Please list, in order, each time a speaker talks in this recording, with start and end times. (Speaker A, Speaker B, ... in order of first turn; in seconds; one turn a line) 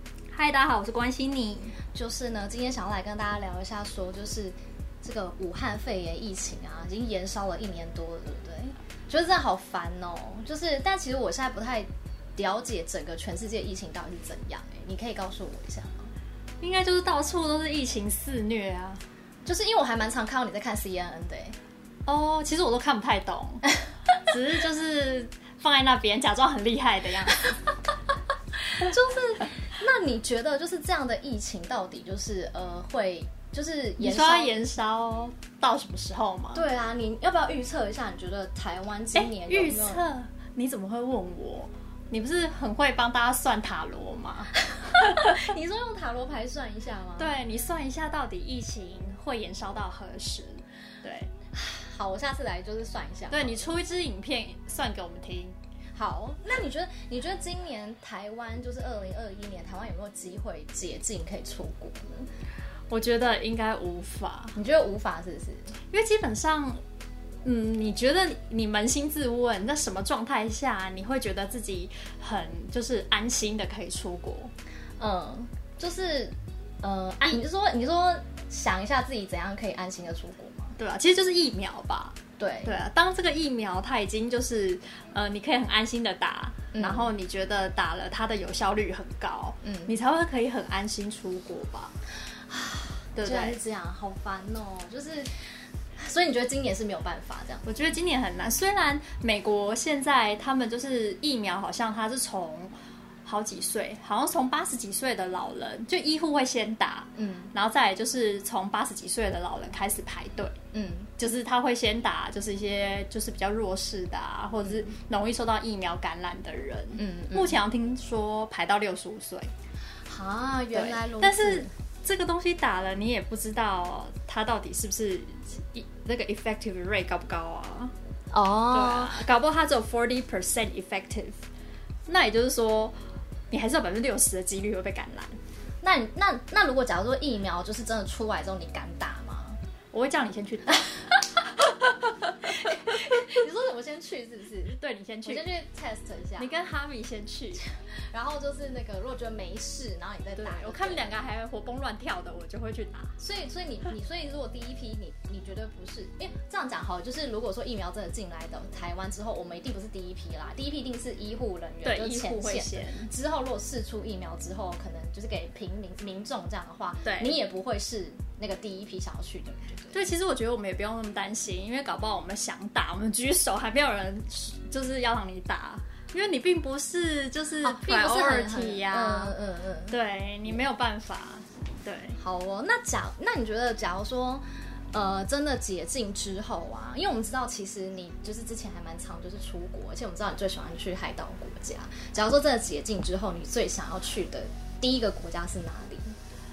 Speaker A: 0.3-1.8
Speaker B: 1.9-16.1
Speaker A: 16.6-19.0
Speaker B: 19.5-21.6
Speaker A: 22.1-23.6
Speaker A: 24.3-27.6
Speaker B: 28.7-34.6
Speaker A: 34.0-36.6
Speaker B: 36.5-40.0
Speaker A: 39.1-44.5
Speaker B: 44.9-47.3
Speaker A: 47.2-51.3
Speaker B: 51.5-53.7
Speaker A: 53.3-55.6
Speaker B: 56.0-62.3
Speaker A: 62.9-64.6
Speaker B: 64.5-65.8
Speaker A: 65.9-66.8
Speaker A: 67.4-74.5
Speaker B: 75.0-80.8
Speaker A: 80.8-91.9
Speaker B: 82.4-82.8
Speaker B: 86.7-87.1
Speaker B: 89.6-90.0
Speaker B: 92.5-95.4
Speaker A: 93.2-93.6
Speaker B: 96.0-97.8
Speaker A: 97.7-102.7
Speaker A: 103.3-110.6
Speaker B: 107.2-107.5
Speaker B: 110.7-111.1
Speaker A: 111.2-119.5
Speaker B: 114.6-114.9
Speaker B: 117.0-117.6
Speaker B: 120.1-121.7
Speaker A: 120.7-127.9
Speaker B: 128.3-129.2
Speaker A: 128.7-131.4
Speaker A: 132.1-133.0
Speaker A: 133.5-135.4
Speaker B: 135.8-139.6
Speaker A: 139.9-141.1
Speaker A: 141.7-143.2
Speaker B: 142.6-146.5
Speaker A: 144.7-145.5
Speaker A: 146.4-147.6
Speaker B: 147.7-151.2
Speaker A: 150.4-153.1
Speaker B: 153.2-170.0
Speaker A: 161.8-163.1
Speaker A: 167.1-167.4
Speaker A: 169.9-179.3
Speaker B: 177.6-180.0
Speaker A: 179.9-182.2
Speaker B: 182.2-196.1